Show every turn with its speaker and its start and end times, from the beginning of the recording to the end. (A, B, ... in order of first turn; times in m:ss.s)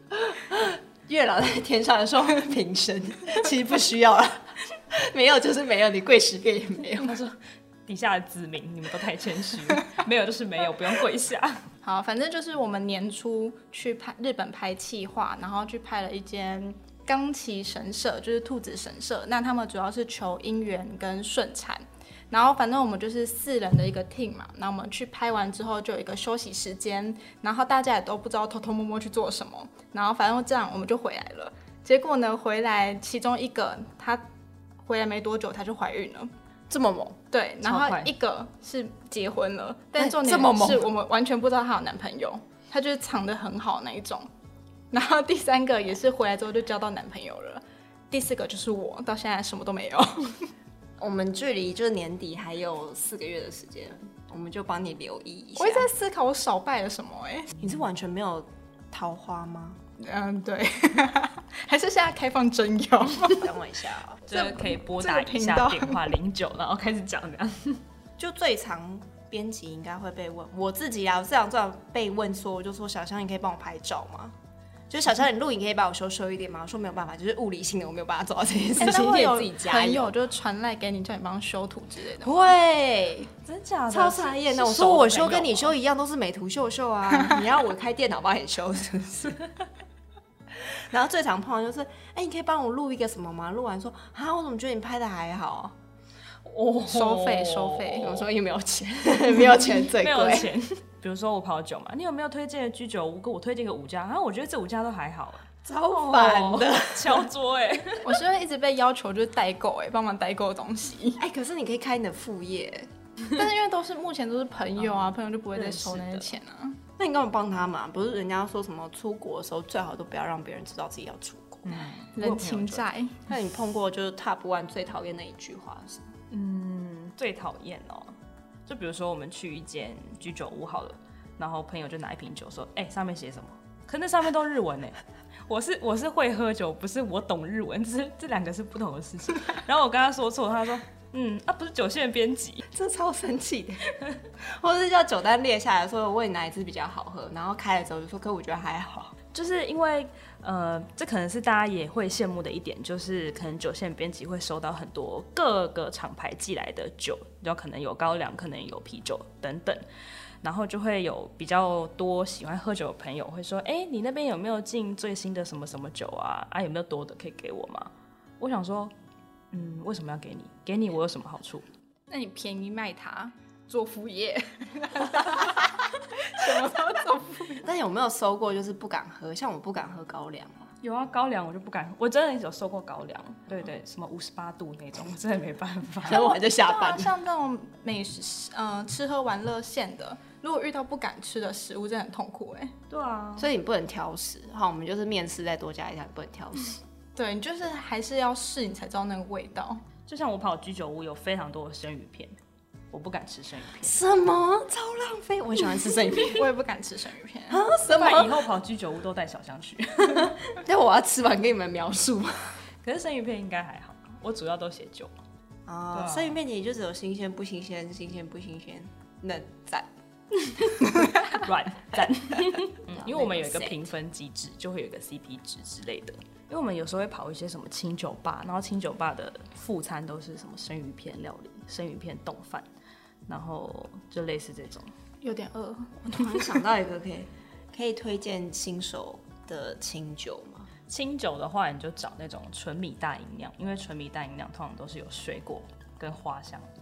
0:00.3-0:07.2 A
0:07.0-0:11.7 B
0:11.8-0:34.2 C
0:34.8-0:36.3 C
0:36.7-0:37.2 A
0:37.3-0:44.3 C
0:37.6-0:38.1 B
0:40.0-0:40.9 A
0:44.9-0:50.5 C
0:51.0-0:55.9 A
0:55.6-0:57.5 C
0:57.6-0:59.8 A
1:00.0-1:03.5 C
1:03.2-1:04.3 A
1:04.3-1:07.8 B
1:04.3-1:06.1 C
1:08.2-1:14.4 A
1:14.9-1:20.1 A
1:18.8-1:22.4 C
1:22.2-1:23.3 A
1:23.4-1:25.7 B
1:23.9-1:29.4 A
1:30.5-1:35.8 A
1:36.5-1:38.2 B
1:36.8-1:38.2 C
1:38.0-1:40.5 A
1:39.8-1:48.1 B
1:45.6-1:47.3 A
1:48.0-1:51.2 C
1:51.2-1:52.9 A
1:53.3-1:56.8 C
1:55.6-1:56.3 B
1:57.0-2:01.9 A
2:01.7-2:02.8 B
2:02.0-2:03.2 C
2:03.3-2:06.1 A
2:06.3-2:22.6 B
2:22.7-2:29.2 A
2:29.3-2:39.8 B
2:40.4-2:48.9 B
2:49.5-2:51.7 B
2:52.1-2:57.6 C
2:57.6-3:00.7 A
3:00.8-3:06.3 B
3:06.0-3:07.1 A
3:06.1-3:12.7 C
3:12.9-3:13.5 B
3:13.4-3:16.8 A
3:17.2-3:19.8 C
3:20.1-3:22.3 B
3:22.9-3:23.9 B
3:23.8-3:26.5 A
3:26.3-3:27.6 C
3:27.5-3:28.5 A
3:27.8-3:30.4 B
3:30.1-3:32.6 A
3:32.8-3:35.1 B
3:35.6-3:39.9 A
3:35.9-3:36.3 B
3:40.4-3:52.6 B
3:42.9-3:43.9 A
3:53.3-3:54.9 B
3:55.2-3:56.1 C
3:56.0-4:00.7 A
4:00.9-4:06.7 B